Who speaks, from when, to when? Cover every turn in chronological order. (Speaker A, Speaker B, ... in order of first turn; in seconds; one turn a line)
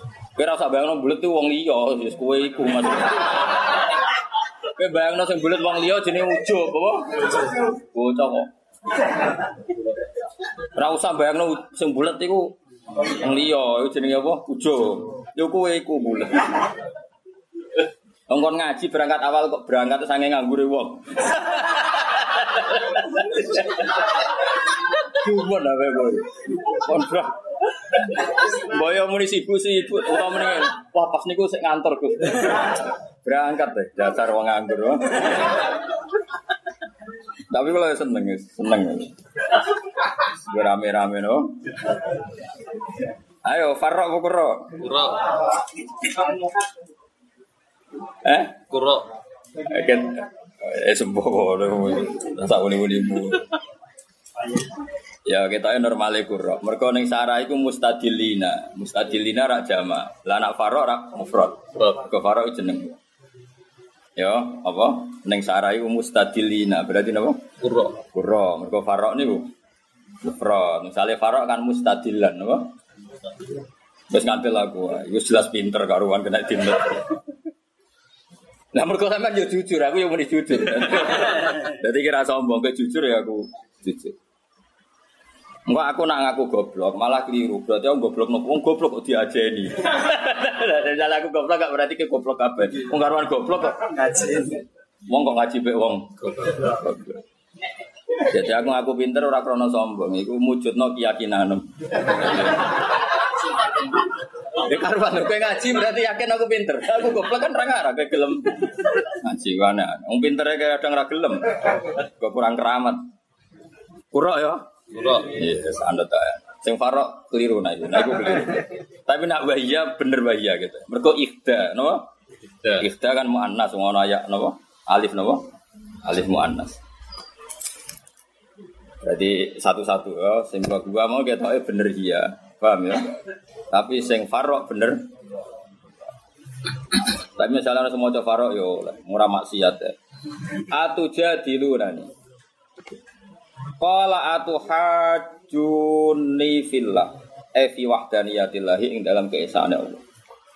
Speaker A: 0.4-3.9
Speaker A: 4.8-8.5
Speaker A: 10.8-16.7
Speaker A: 18.3-24.1
Speaker A: 24.9-27.4
Speaker A: 27.9-35.7
Speaker A: 37.5-39.2
Speaker A: 40.5-41.5
Speaker A: 43.5-45.3
Speaker B: 44.9-45.2
Speaker A: 48.2-48.9
Speaker A: 49.6-53.5
Speaker A: 55.3-63.0
Speaker B: 61.8-62.0
Speaker A: 64.2-67.4
Speaker B: 67.6-68.0
Speaker A: 68.1-69.5
Speaker A: 70.2-72.7
Speaker A: 74.1-77.2
Speaker A: 78.7-84.2
Speaker A: 85.7-94.2
Speaker A: 95.1-97.2
Speaker B: 96.2-96.8
Speaker A: 98.2-102.8
Speaker A: 104.5-113.0
Speaker A: 114.1-114.7
Speaker B: 114.9-115.4
Speaker A: 115.3-122.1
Speaker A: 122.8-125.4
Speaker A: 126.0-126.8
Speaker A: 129.0-133.1
Speaker A: 133.7-135.0
Speaker A: 137.4-140.0
Speaker A: 140.7-142.1
Speaker A: 143.8-150.0